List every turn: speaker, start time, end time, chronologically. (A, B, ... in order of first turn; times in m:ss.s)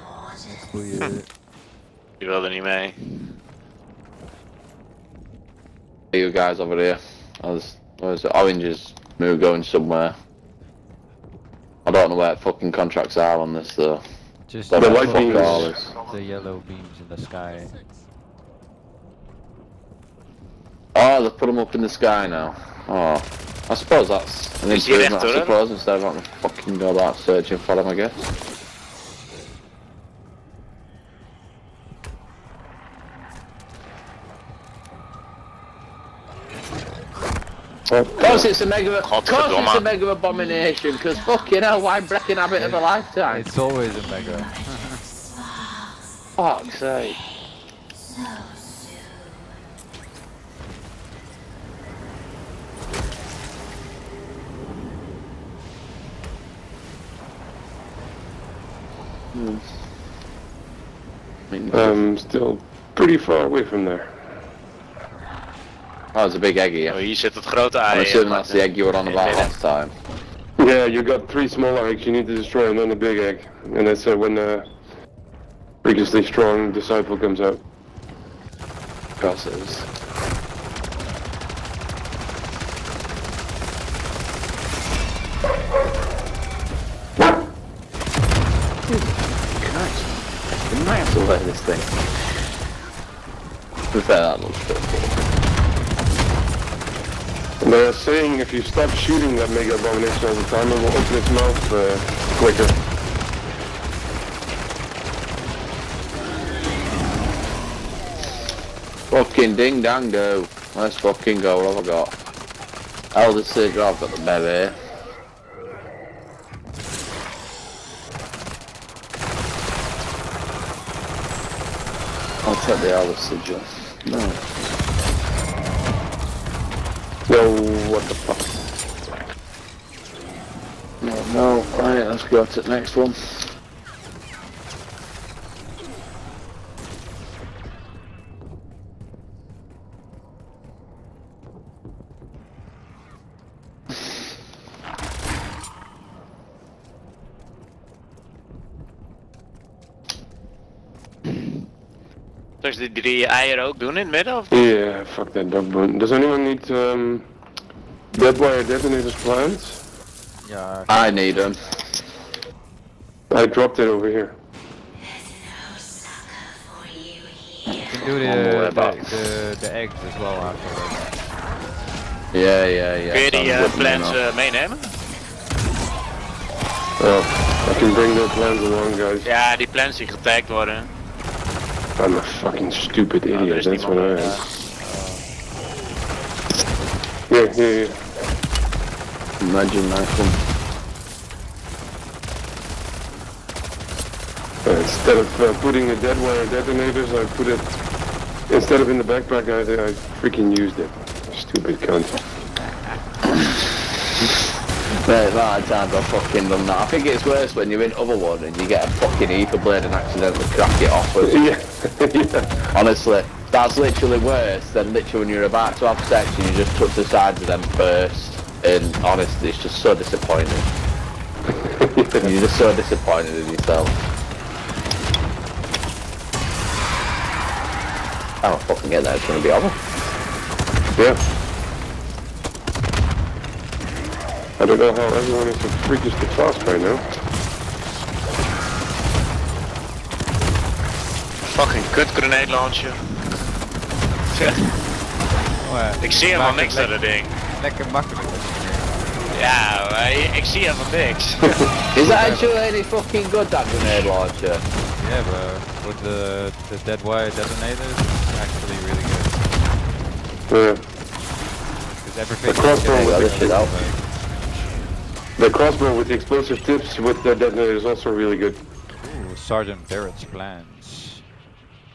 0:00.4-0:01.3 A
0:02.2-0:03.0 B
0:06.1-0:10.1 C
0:11.8-0:14.0 C
0:14.5-0:17.7 A
0:14.7-0:15.9 C
0:14.8-0:15.7 D
0:21.0-0:28.2 C
0:24.7-0:25.6 B
0:37.9-0:38.5 D
0:38.2-0:43.5 C
0:39.0-0:39.9 B
0:42.6-0:45.0 A
0:46.4-0:47.2 C
0:59.3-0:59.7 C
1:01.5-1:02.0 C
1:01.7-1:04.2 D
1:06.1-1:07.0 C
1:06.9-1:09.5 B
1:07.9-1:09.9 C
1:10.6-1:14.7 D
1:15.8-1:17.6 D
1:19.2-1:19.9 C
1:28.8-1:30.1 C
1:30.7-1:32.1 C
1:33.9-1:35.1 C
1:37.6-1:42.8 D
1:49.1-1:52.1 C
1:53.1-1:54.8 C
2:02.4-2:04.4 C
2:07.3-2:08.6 D
2:11.0-2:13.5 C
2:32.6-2:34.5 B
2:34.5-2:37.3 D
2:38.1-2:39.8 D
2:40.4-2:41.4 A
2:40.9-2:41.8 C
2:43.3-2:44.4 D
2:47.7-2:51.1 A
2:48.2-2:49.2 C
2:52.3-2:54.2 C
2:53.1-2:55.0 B
2:57.0-2:59.3 D
2:59.2-3:00.9 B
3:02.0-3:04.5 D
3:03.3-3:04.5 B
3:04.8-3:05.3 A
3:07.3-3:08.0 D
3:09.4-3:10.4 C
3:14.6-3:17.7 D
3:18.5-3:22.2 D
3:24.9-3:31.4 C
3:31.2-3:32.7 D
3:32.7-3:40.7 C
3:41.5-3:42.3 D
3:42.2-3:44.0 C
3:48.4-3:49.8 C
3:54.6-3:57.0 D
4:01.5-4:03.0 B
4:05.6-4:09.1 A
4:06.0-4:07.4 B
4:09.3-4:11.5 B
4:11.5-4:11.8 D
4:11.9-4:12.6 A
4:11.9-4:14.6 C
4:15.0-4:19.5 A
4:20.5-4:20.8 D
4:22.0-4:24.1 A
4:22.5-4:23.6 D
4:22.9-4:23.7 C
4:25.4-4:28.6 D
4:29.0-4:31.2 A